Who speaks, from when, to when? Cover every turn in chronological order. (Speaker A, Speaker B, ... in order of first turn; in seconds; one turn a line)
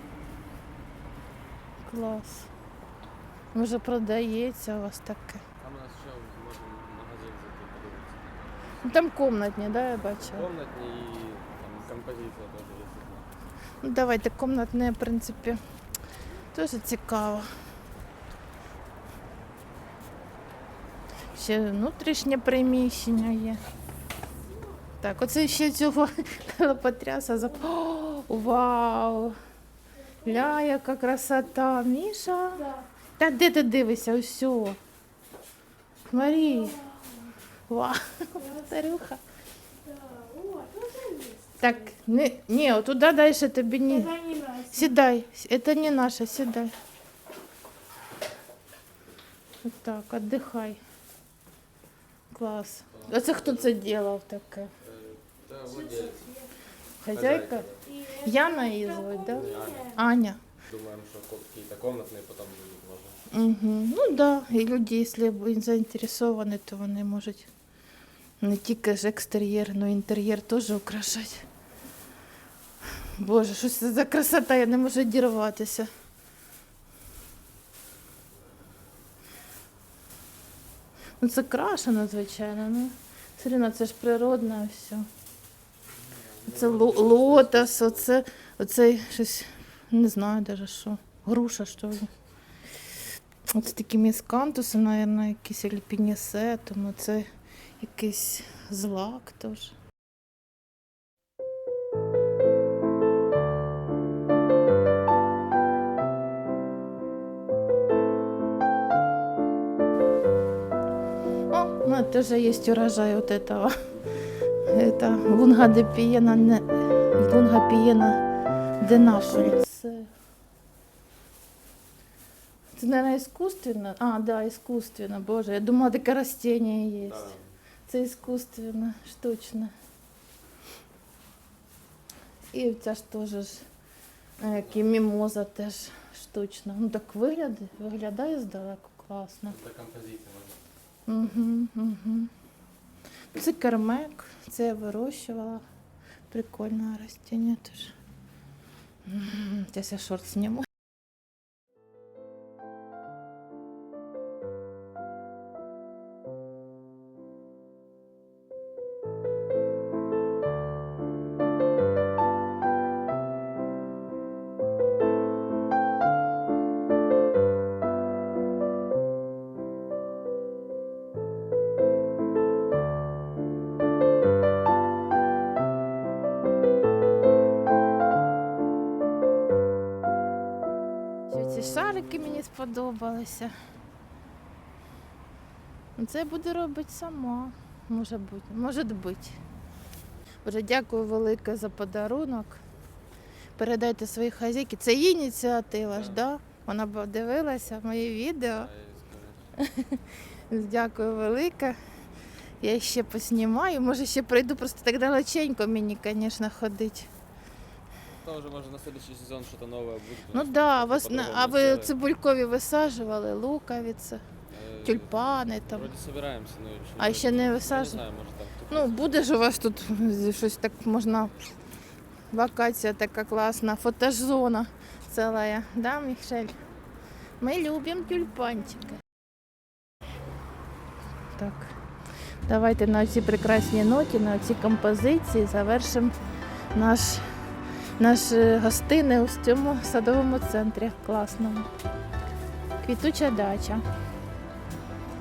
Speaker A: 1.8-2.5
Speaker A: 3.5-5.4
Speaker B: 5.6-8.8
Speaker A: 8.8-10.5
Speaker B: 9.8-13.3
Speaker A: 13.8-15.6
Speaker A: 16.5-17.5
Speaker A: 21.3-23.6
Speaker A: 25.0-29.4
Speaker C: 30.0-30.6
Speaker A: 30.2-32.6
Speaker C: 32.5-32.9
Speaker A: 33.2-34.8
Speaker A: 36.1-36.8
Speaker C: 36.1-37.3
Speaker A: 37.7-39.2
Speaker C: 38.4-38.6
Speaker C: 39.8-41.9
Speaker A: 41.6-44.1
Speaker C: 43.9-45.0
Speaker A: 44.7-46.7
Speaker A: 49.6-50.8
Speaker A: 52.3-54.7
Speaker B: 52.9-53.7
Speaker B: 54.8-56.3
Speaker C: 55.7-56.5
Speaker A: 57.0-57.7
Speaker B: 57.1-57.8
Speaker C: 57.8-60.0
Speaker A: 58.2-60.4
Speaker B: 59.3-59.9
Speaker B: 60.6-63.3
Speaker A: 63.3-67.5
Speaker A: 68.4-71.4
Speaker A: 73.2-75.9
Speaker A: 81.2-85.1
Speaker B: 85.9-88.1
Speaker A: 86.5-92.1
Speaker A: 93.5-97.3
Speaker A: 97.8-99.7
Speaker A: 111.5-113.8
Speaker A: 114.7-118.2
Speaker A: 118.8-120.1
Speaker A: 122.7-127.3
Speaker B: 127.0-127.5
Speaker A: 127.9-129.7
Speaker A: 132.5-133.6
Speaker A: 134.4-139.6
Speaker B: 134.4-134.9
Speaker B: 139.5-140.6
Speaker A: 141.1-142.3
Speaker A: 143.3-145.6
Speaker A: 146.3-147.9
Speaker A: 149.1-150.7
Speaker A: 181.3-183.5
Speaker A: 186.0-189.4
Speaker A: 190.4-192.6
Speaker A: 193.6-198.7
Speaker B: 195.9-196.3
Speaker B: 198.5-199.5
Speaker A: 199.6-201.8
Speaker A: 202.6-207.1
Speaker B: 208.1-211.9
Speaker A: 210.3-214.2
Speaker B: 214.5-219.1
Speaker A: 214.8-215.9
Speaker A: 217.0-218.0
Speaker A: 218.7-221.3
Speaker A: 222.3-226.6
Speaker A: 227.4-229.0
Speaker A: 231.4-231.7
Speaker A: 232.5-236.1
Speaker A: 236.7-237.3
Speaker A: 238.0-241.7
Speaker A: 242.8-243.8